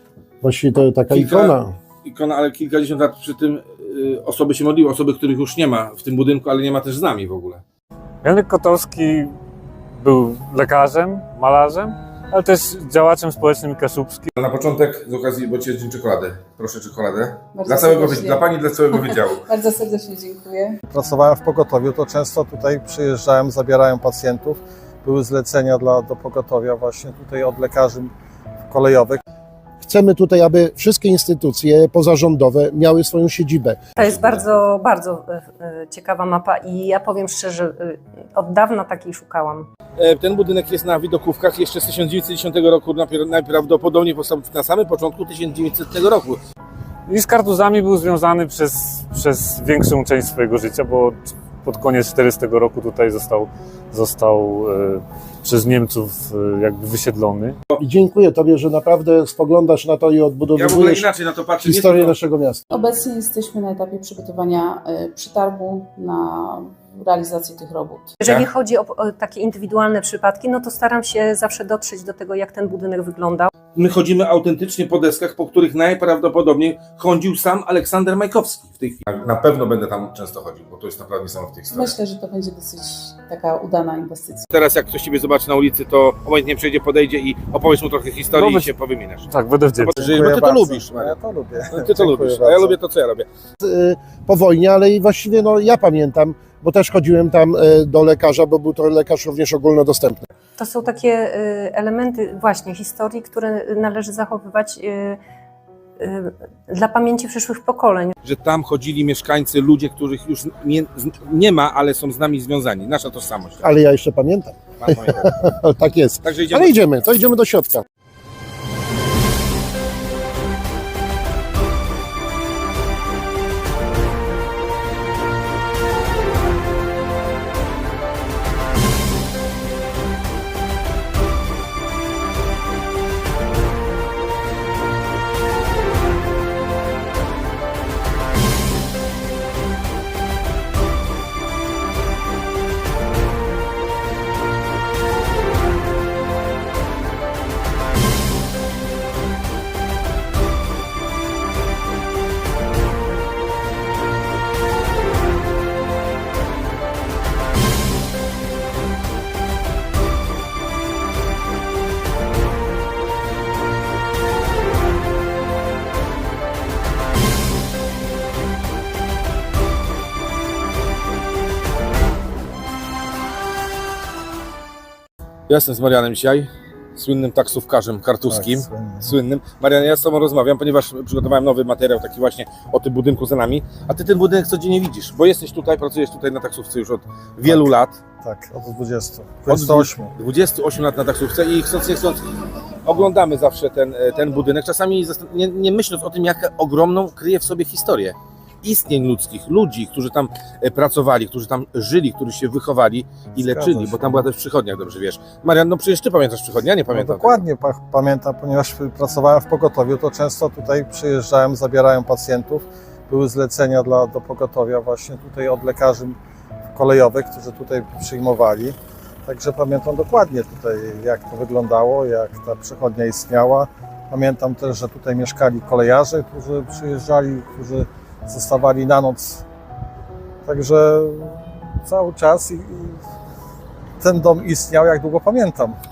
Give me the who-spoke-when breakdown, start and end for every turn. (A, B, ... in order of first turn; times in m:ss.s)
0:00.4-0:01.7 A
0:01.1-0:07.6 B
0:08.2-0:09.4 C
0:10.0-0:14.3 C
0:14.4-0:19.5 B
0:17.5-0:18.5 D
0:19.1-0:20.8 D
0:20.9-0:28.1 E
0:28.7-0:29.2 E
0:29.8-0:33.9 A
0:34.0-0:39.7 F
0:40.0-0:46.4 B
0:47.1-0:57.6 C
0:57.8-1:01.1 A
1:00.6-1:02.2 B
1:01.6-1:02.6 A
1:02.7-1:08.2 D
1:08.2-1:13.5 F
1:13.8-1:22.0 B
1:21.7-1:24.5 D
1:24.5-1:29.3 B
1:28.3-1:28.7 C
1:29.3-1:30.2 C
1:29.8-1:31.2 B
1:30.0-1:32.8 E
1:31.7-1:33.3 B
1:33.6-1:40.2 A
1:40.6-1:45.2 F
1:46.0-1:48.2 F
1:48.2-1:53.6 B
1:53.6-1:57.8 A
1:54.8-1:55.4 B
1:56.2-1:56.8 B
2:55.5-3:08.0 B
2:58.3-2:59.1 E
3:08.2-3:10.1 E
3:09.5-3:12.2 B
3:12.8-3:27.4 B
3:23.4-3:24.2 E
3:26.9-3:36.2 E
3:36.8-3:49.4 E
3:50.4-3:53.0 E
3:54.0-3:55.8 E